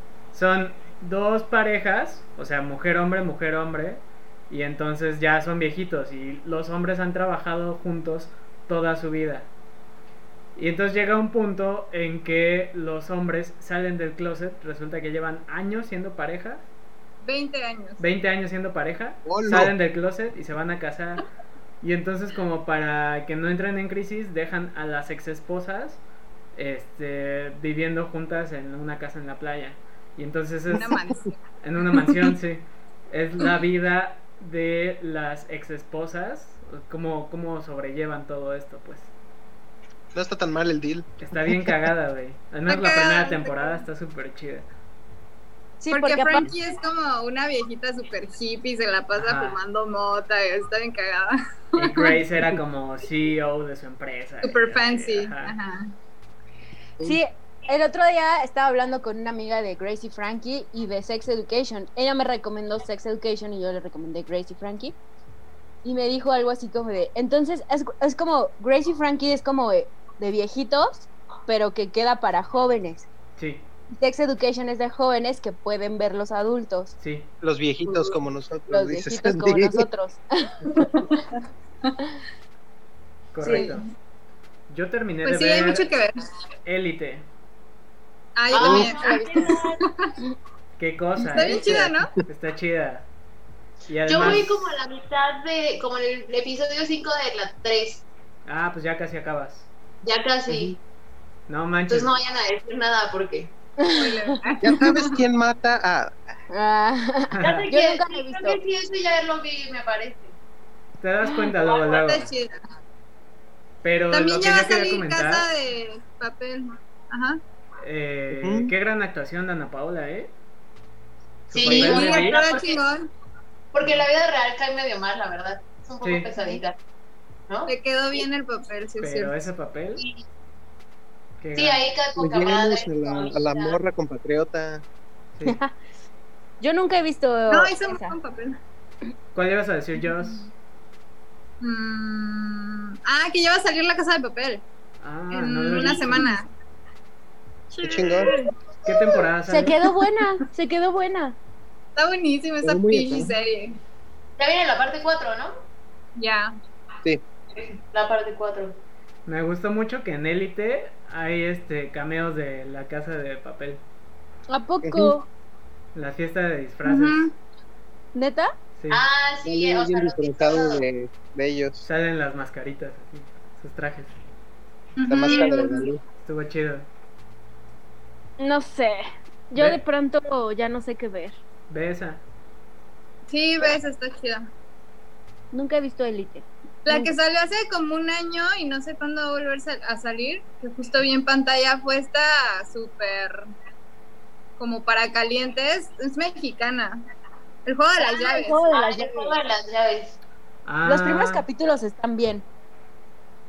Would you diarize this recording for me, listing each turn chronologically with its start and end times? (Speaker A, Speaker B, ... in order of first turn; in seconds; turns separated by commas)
Speaker A: 0.3-9.5, Speaker A: 10.6-16.7, Speaker B: 17.2-18.0, Speaker A: 18.0-21.2, Speaker C: 19.2-19.7, Speaker A: 21.8-26.0, Speaker A: 26.5-30.9, Speaker B: 30.7-31.4, Speaker A: 31.6-39.1, Speaker C: 40.1-41.7, Speaker A: 41.2-44.7, Speaker B: 42.7-43.8, Speaker D: 45.8-46.5, Speaker B: 45.9-52.2, Speaker A: 49.2-49.6, Speaker A: 51.8-55.5, Speaker B: 54.4-55.9, Speaker D: 57.0-65.0, Speaker D: 65.8-73.1, Speaker A: 73.4-73.7, Speaker D: 74.0-76.9, Speaker A: 77.0-77.3, Speaker C: 77.4-79.8, Speaker B: 77.8-78.2, Speaker D: 78.7-81.2, Speaker A: 83.3-83.8, Speaker D: 83.4-83.8, Speaker B: 83.5-83.8, Speaker A: 84.7-85.9, Speaker B: 85.2-86.2, Speaker A: 86.6-87.2, Speaker B: 88.3-89.2, Speaker E: 88.5-89.8, Speaker D: 88.5-89.6, Speaker B: 89.8-90.1, Speaker A: 90.8-93.1, Speaker B: 91.3-92.1, Speaker C: 91.3-92.2, Speaker A: 93.9-94.7, Speaker E: 94.1-98.0, Speaker A: 98.5-99.7, Speaker E: 100.0-100.8, Speaker C: 100.5-100.7, Speaker A: 101.5-102.1, Speaker E: 101.9-103.5, Speaker D: 103.8-104.4, Speaker B: 103.9-105.2, Speaker C: 104.6-106.3, Speaker D: 106.5-108.6, Speaker A: 107.3-107.7, Speaker E: 107.4-110.3, Speaker A: 111.0-112.3, Speaker B: 111.6-112.6, Speaker A: 113.8-115.5, Speaker B: 114.1-117.4, Speaker A: 117.8-120.3, Speaker C: 118.3-118.7, Speaker A: 121.5-122.5, Speaker E: 121.5-122.8, Speaker B: 121.7-123.1, Speaker E: 123.7-126.8, Speaker A: 123.8-124.1, Speaker A: 126.0-126.3, Speaker D: 126.4-126.6, Speaker B: 127.7-129.3, Speaker A: 129.0-130.0, Speaker E: 130.0-130.2, Speaker A: 131.4-131.9, Speaker E: 131.5-133.8, Speaker C: 132.2-134.8, Speaker A: 135.3-135.6, Speaker D: 135.4-135.8, Speaker D: 136.6-138.2, Speaker B: 137.5-138.6, Speaker A: 139.3-140.5, Speaker B: 141.6-144.6, Speaker A: 145.0-146.3, Speaker B: 145.3-146.4, Speaker B: 147.7-148.9, Speaker C: 147.8-148.3, Speaker A: 148.8-149.8, Speaker D: 149.5-151.4, Speaker B: 151.9-153.8, Speaker C: 152.6-153.3, Speaker E: 154.4-155.5, Speaker B: 156.2-156.5, Speaker E: 157.5-158.8, Speaker A: 159.2-163.8, Speaker D: 164.5-165.3, Speaker C: 164.8-165.1, Speaker A: 165.9-167.3, Speaker B: 166.8-167.3, Speaker D: 168.1-168.5, Speaker A: 168.8-169.1, Speaker E: 168.9-170.8, Speaker C: 169.4-171.8, Speaker A: 171.8-174.2, Speaker B: 175.0-175.9, Speaker C: 175.1-176.0, Speaker E: 175.3-175.8, Speaker A: 176.2-176.8, Speaker D: 178.4-181.4, Speaker A: 179.6-179.8, Speaker A: 181.7-182.2, Speaker B: 183.3-184.5, Speaker D: 185.5-187.1, Speaker B: 186.8-193.5, Speaker B: 194.6-197.0, Speaker B: 197.6-198.6, Speaker D: 198.0-199.4, Speaker E: 198.7-200.2, Speaker A: 200.7-201.4, Speaker D: 200.8-202.4